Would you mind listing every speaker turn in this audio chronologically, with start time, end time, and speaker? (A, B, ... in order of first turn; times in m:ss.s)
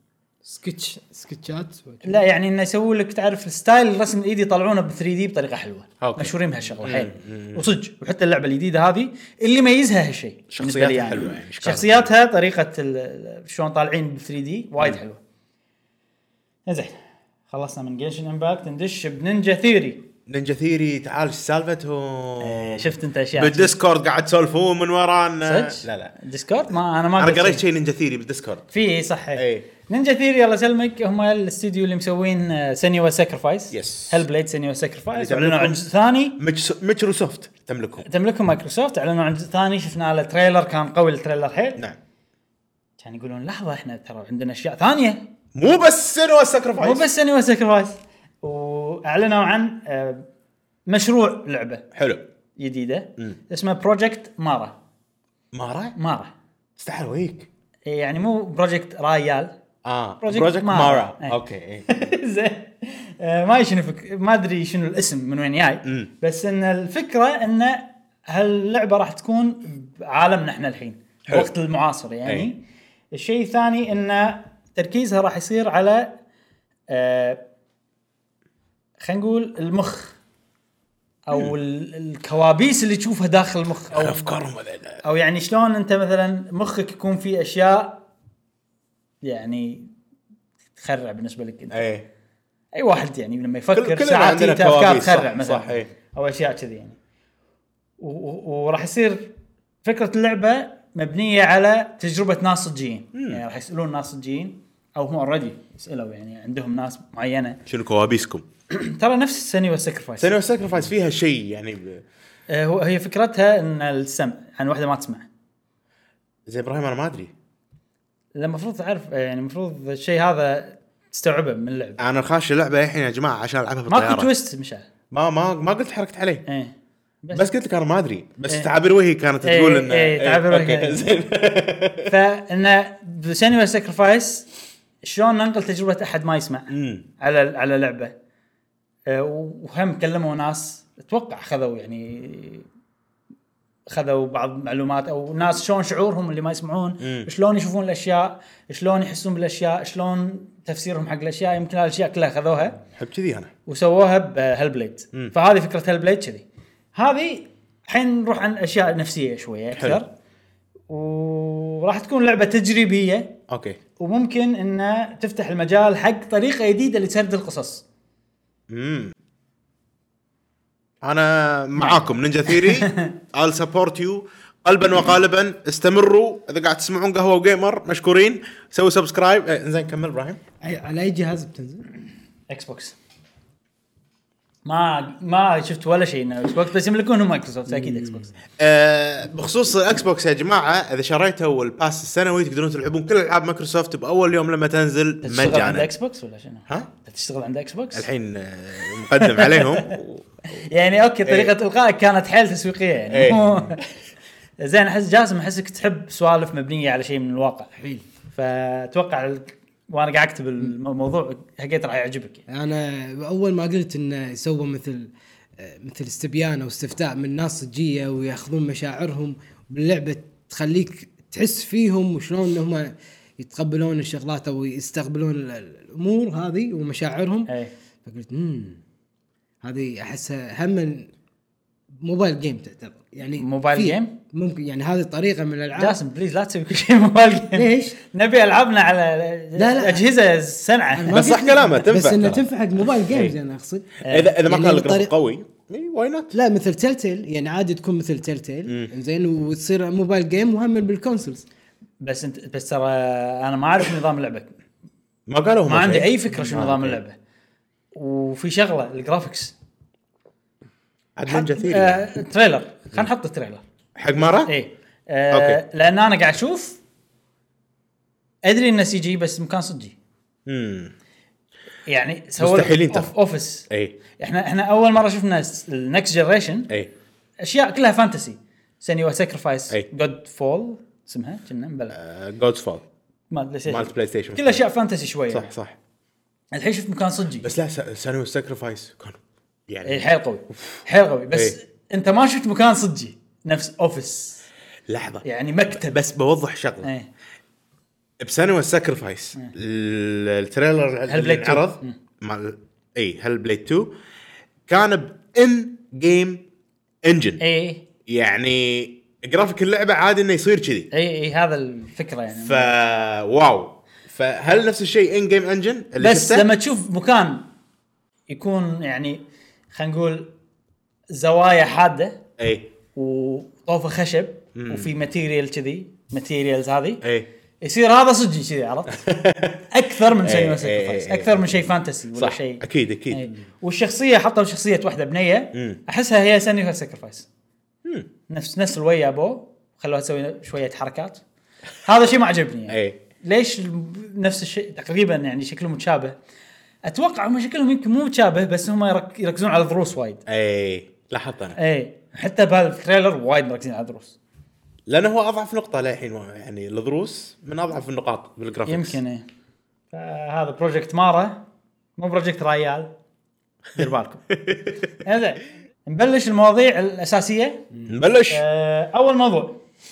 0:00.4-0:02.2 A
0:02.0-0:15.2 B
0:06.0-0:07.8 C
0:10.5-0:12.1 C
0:16.7-0:17.0 B
0:17.5-0:20.0 B
0:20.3-0:26.1 C
0:22.4-0:23.8 B
0:25.4-0:27.6 B
0:27.2-0:28.7 C
0:28.7-0:36.4 B
0:29.4-0:29.7 C
0:33.7-0:34.3 C
0:35.1-0:35.8 C
0:36.4-0:38.0 C
0:38.0-0:41.8 B
0:43.0-0:45.2 B
0:45.6-0:47.1 C
0:46.8-0:50.2 B
0:50.9-0:51.8 B
0:51.9-0:52.2 C
0:52.6-0:54.8 B
0:55.5-0:56.0 C
0:56.0-0:56.3 B
0:56.8-0:57.5 C
0:57.9-0:59.5 B
0:59.8-1:01.9 C
1:00.2-1:01.4 B
1:01.9-1:12.6 B
1:13.1-1:16.1 B
1:16.9-1:17.4 B
1:19.0-1:20.2 B
1:21.3-1:24.3 B
1:23.9-1:25.0 C
1:25.0-1:28.0 B
1:29.2-1:29.9 B
1:30.8-1:31.8 B
1:31.7-1:32.1 C
1:32.7-1:37.0 B
1:33.7-1:35.9 C
1:38.0-1:39.3 B
1:39.8-1:47.6 B
1:43.2-1:43.4 C
1:47.7-1:48.4 C
1:48.7-1:50.4 B
1:50.2-1:52.0 C
1:52.5-1:55.3 B
1:56.5-1:57.3 C
1:58.4-2:02.0 B
2:02.0-2:04.3 C
2:03.9-2:04.8 B
2:05.1-2:06.4 C
2:06.5-2:07.5 B
2:07.3-2:12.1 C
2:09.4-2:11.0 B
2:12.1-2:14.5 B
2:15.0-2:18.1 B
2:16.7-2:17.0 C
2:19.1-2:22.7 B
2:23.9-2:32.8 B
2:27.0-2:27.3 C
2:33.0-2:33.5 C
2:33.7-2:40.1 B
2:39.8-2:40.0 C
2:40.9-2:43.3 B
2:43.5-2:43.8 C
2:44.0-2:47.8 B
2:48.7-2:49.1 C
2:51.0-3:00.4 C
2:51.8-2:53.1 B
3:00.6-3:01.9 A
3:02.5-3:03.0 B
3:04.6-3:08.3 B
3:07.7-3:08.3 A
3:08.6-3:15.9 C
3:15.2-3:18.1 B
3:17.9-3:20.3 C
3:19.1-3:20.0 B
3:20.5-3:23.8 B
3:21.2-3:21.5 C
3:23.1-3:23.8 C
3:24.6-3:27.7 B
3:27.8-3:28.0 A
3:28.3-3:32.4 B
3:32.5-3:47.5 A
3:48.0-3:48.8 A
3:49.6-3:51.1 A
3:52.0-3:56.0 A
3:53.4-3:54.1 B
3:55.8-4:01.2 B
3:57.6-3:58.0 A
3:59.6-4:00.0 A
4:01.0-4:05.1 A
4:01.1-4:02.4 C
4:03.1-4:03.4 C
4:04.0-4:04.3 B
4:04.1-4:06.3 C
4:06.3-4:11.4 A
4:12.0-4:14.5 B
4:15.3-4:17.0 C
4:15.7-4:17.2 B
4:17.9-4:19.6 B
4:21.2-4:22.1 C
4:21.3-4:23.6 B
4:24.0-4:24.5 C
4:24.5-4:26.8 B
4:25.3-4:25.6 C
4:28.4-4:30.0 B
4:30.5-4:30.9 C
4:31.9-4:36.7 B
4:32.4-4:33.1 C
4:33.7-4:34.0 C
4:37.4-4:42.0 B
4:41.9-4:42.8 C
4:43.3-4:45.5 B
4:43.7-4:44.6 C
4:45.3-4:45.8 C
4:46.5-4:47.5 B
4:47.4-4:50.8 C
4:49.8-4:54.5 B
4:54.9-4:56.9 C
4:55.2-4:56.0 B
4:56.8-4:57.1 B
4:58.2-5:03.9 C
5:01.1-5:02.0 B
5:04.7-5:06.4 C
5:07.0-5:07.4 C
5:07.4-5:07.8 B
5:08.1-5:10.9 C
5:10.9-5:12.7 B
5:12.3-5:16.5 C
5:16.0-5:17.5 B
5:18.3-5:20.3 B
5:21.1-5:22.2 B
5:22.4-5:22.7 C
5:23.0-5:27.0 B
5:24.6-5:24.9 C
5:27.0-5:27.3 C
5:27.6-5:29.1 B
5:28.9-5:33.3 C
5:29.7-5:37.3 B
5:37.8-5:38.1 C
5:38.3-5:41.2 B
5:41.8-5:46.2 B
5:42.7-5:43.0 C
5:46.8-5:50.2 B
5:50.3-5:51.6 C
5:51.6-5:54.2 B
5:54.9-5:59.0 C
5:58.7-5:59.2 B
5:59.9-6:01.4 B
6:02.0-6:02.9 B
6:03.8-6:04.3 B
6:04.3-6:04.8 C
6:05.0-6:07.6 B
6:07.9-6:08.4 C
6:08.3-6:09.6 B